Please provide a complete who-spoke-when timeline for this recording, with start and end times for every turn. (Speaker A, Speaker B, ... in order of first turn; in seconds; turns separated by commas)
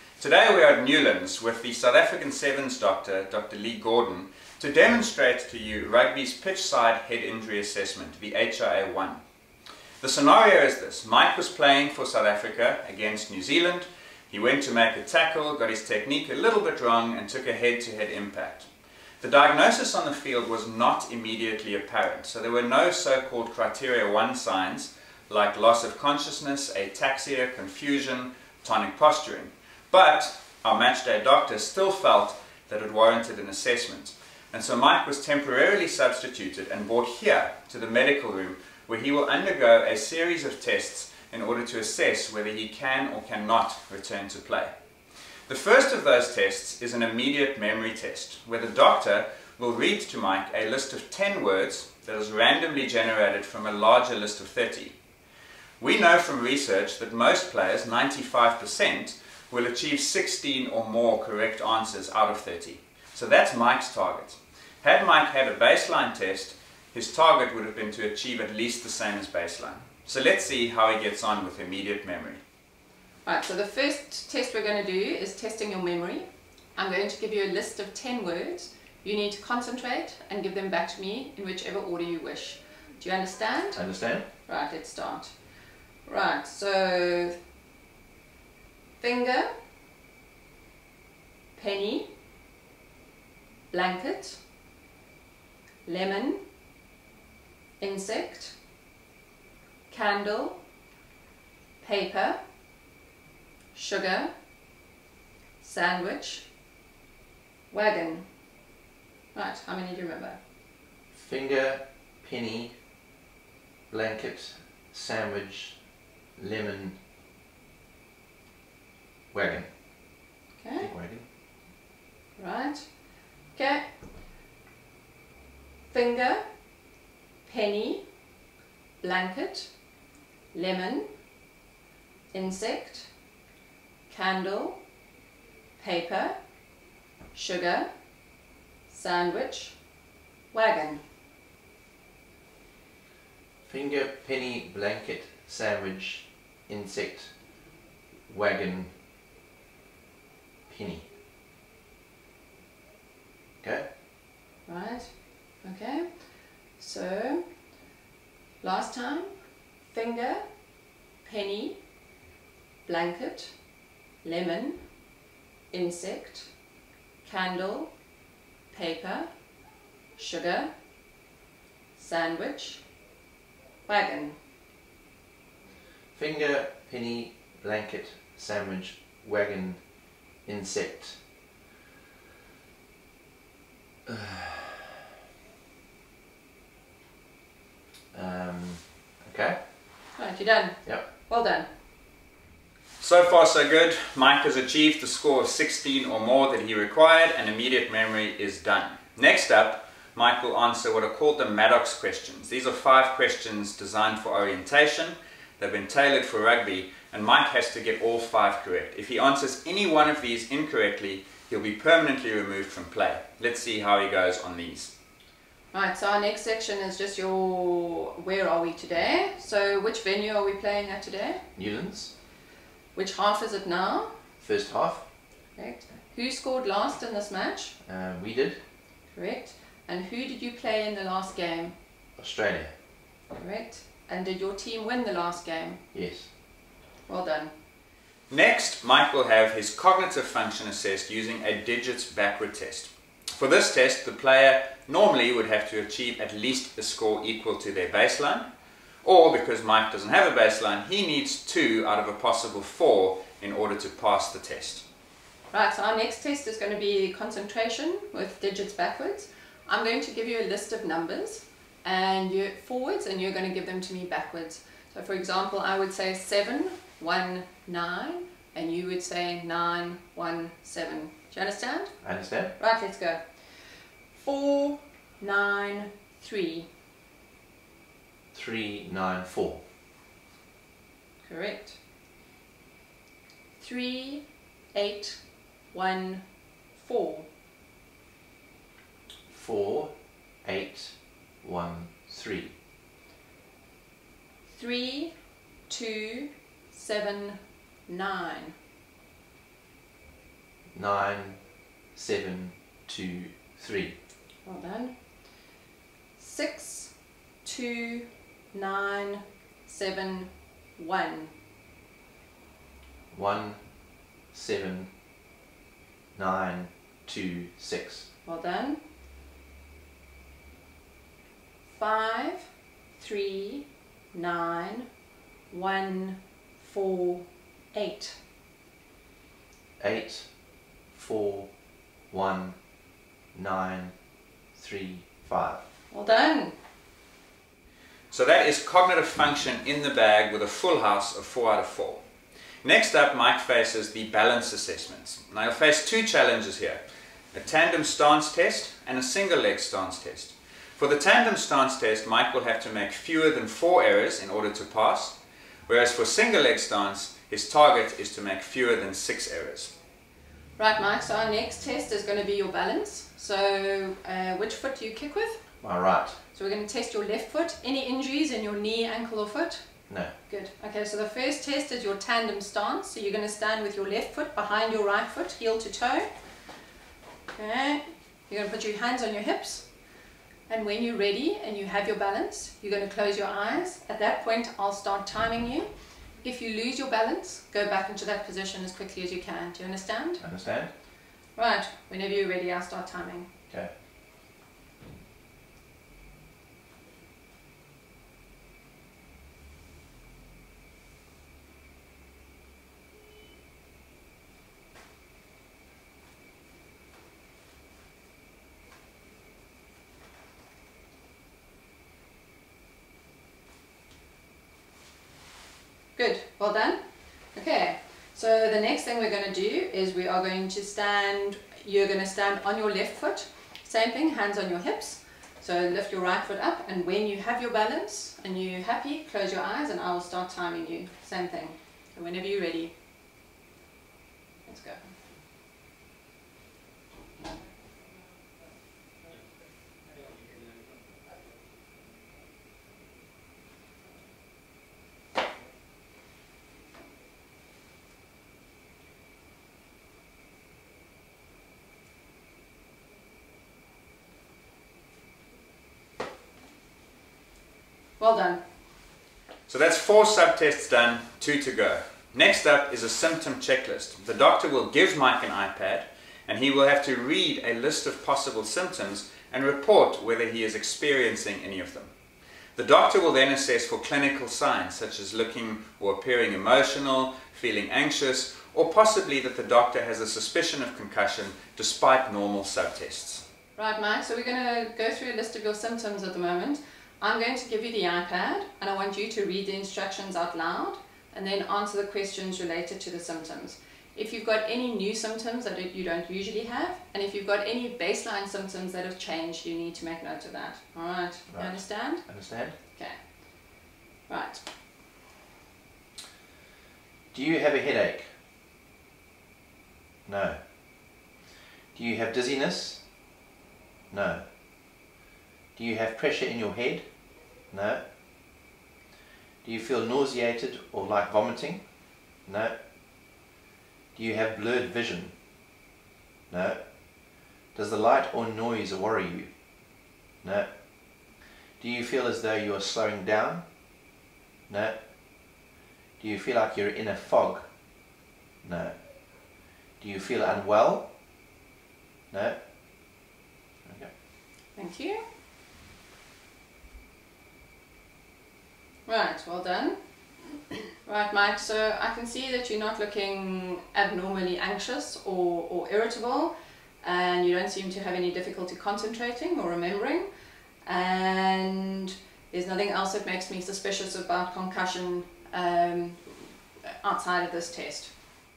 Speaker A: 0.2-9.2, Speaker A: 10.0-18.7, Speaker A: 19.2-44.7, Speaker A: 45.5-54.9, Speaker A: 55.8-72.4, Speaker B: 73.2-83.8, Speaker C: 83.7-84.2, Speaker B: 84.4-85.3, Speaker B: 86.0-87.4, Speaker B: 89.0-89.5, Speaker B: 91.5-92.1, Speaker B: 93.7-94.4, Speaker B: 95.8-96.4, Speaker B: 97.8-98.5, Speaker B: 99.9-100.6, Speaker B: 101.8-102.4, Speaker B: 103.7-104.3, Speaker B: 105.6-106.5, Speaker B: 107.7-108.2, Speaker B: 109.3-110.4, Speaker C: 111.1-112.7, Speaker C: 113.9-115.8, Speaker C: 116.4-117.0, Speaker C: 119.3-119.7, Speaker B: 120.6-120.9, Speaker C: 120.8-121.2, Speaker B: 122.4-122.9, Speaker B: 123.5-123.8, Speaker B: 125.9-126.4, Speaker B: 127.5-128.0, Speaker B: 129.0-129.7, Speaker B: 130.5-131.1, Speaker B: 132.3-133.1, Speaker B: 134.1-134.8, Speaker B: 135.8-136.3, Speaker B: 137.3-137.9, Speaker B: 138.9-139.8, Speaker B: 140.5-141.0, Speaker C: 143.7-147.3, Speaker C: 148.3-148.9, Speaker C: 150.7-151.1, Speaker B: 154.7-156.2, Speaker B: 156.8-157.4, Speaker B: 158.6-159.3, Speaker B: 159.9-160.4, Speaker B: 161.2-161.8, Speaker B: 162.8-163.5, Speaker B: 164.2-164.8, Speaker B: 165.7-166.5, Speaker B: 167.2-167.9, Speaker B: 168.7-169.3, Speaker B: 170.2-170.7, Speaker B: 172.0-172.8, Speaker B: 173.8-174.4, Speaker C: 176.1-179.8, Speaker C: 180.4-181.2, Speaker C: 184.1-184.8, Speaker C: 188.1-189.6, Speaker B: 190.1-191.7, Speaker A: 193.0-214.9, Speaker B: 215.7-221.4, Speaker C: 221.5-222.1, Speaker B: 222.9-224.1, Speaker C: 224.4-225.1, Speaker B: 225.6-227.7, Speaker C: 227.8-228.6, Speaker B: 229.1-231.7, Speaker C: 232.2-232.7, Speaker B: 233.3-235.8, Speaker C: 235.9-236.3, Speaker B: 237.1-237.5, Speaker A: 238.3-248.5, Speaker A: 249.0-254.8, Speaker B: 255.5-272.0, Speaker C: 272.0-272.5, Speaker B: 272.6-276.7, Speaker C: 278.3-279.6, Speaker B: 281.2-281.8, Speaker B: 283.6-285.2, Speaker B: 285.7-286.2, Speaker B: 286.8-287.3, Speaker C: 289.3-292.5, Speaker B: 294.5-295.1, Speaker B: 295.7-298.5, Speaker C: 300.7-301.4, Speaker C: 301.9-303.9, Speaker B: 304.4-304.9, Speaker B: 306.2-306.9, Speaker B: 307.4-311.3, Speaker C: 313.1-313.6, Speaker C: 314.3-314.9, Speaker C: 316.1-318.1, Speaker B: 318.2-318.8, Speaker B: 321.7-324.9, Speaker B: 325.5-328.1, Speaker C: 329.8-330.3, Speaker C: 330.9-331.5, Speaker C: 332.1-332.6, Speaker C: 333.3-333.9, Speaker C: 334.5-335.6, Speaker B: 335.9-336.5, Speaker A: 338.1-342.0, Speaker A: 342.6-346.8, Speaker A: 347.3-355.2, Speaker A: 355.7-359.7, Speaker B: 360.6-365.4, Speaker C: 365.6-366.2, Speaker B: 366.3-369.6, Speaker B: 370.2-376.1, Speaker B: 377.4-379.6, Speaker B: 380.5-385.7, Speaker B: 386.2-390.2, Speaker C: 390.2-390.7, Speaker B: 391.4-393.3, Speaker B: 415.9-416.8, Speaker B: 417.3-432.7, Speaker B: 434.4-434.9, Speaker B: 458.0-458.4, Speaker A: 459.5-471.9, Speaker A: 472.6-483.2, Speaker B: 483.6-504.4, Speaker C: 501.3-502.5, Speaker C: 507.1-508.1, Speaker C: 510.1-510.9, Speaker C: 511.7-512.8, Speaker C: 513.9-514.3, Speaker C: 515.5-516.8, Speaker C: 517.5-517.9, Speaker C: 519.4-521.7, Speaker C: 522.2-522.6, Speaker C: 523.9-525.1, Speaker C: 526.3-529.3, Speaker C: 530.2-533.5, Speaker C: 534.5-535.3, Speaker C: 536.0-537.5, Speaker C: 538.4-540.9, Speaker C: 542.1-542.4, Speaker C: 543.6-543.9, Speaker B: 544.5-545.0, Speaker B: 548.9-560.1, Speaker B: 560.6-567.9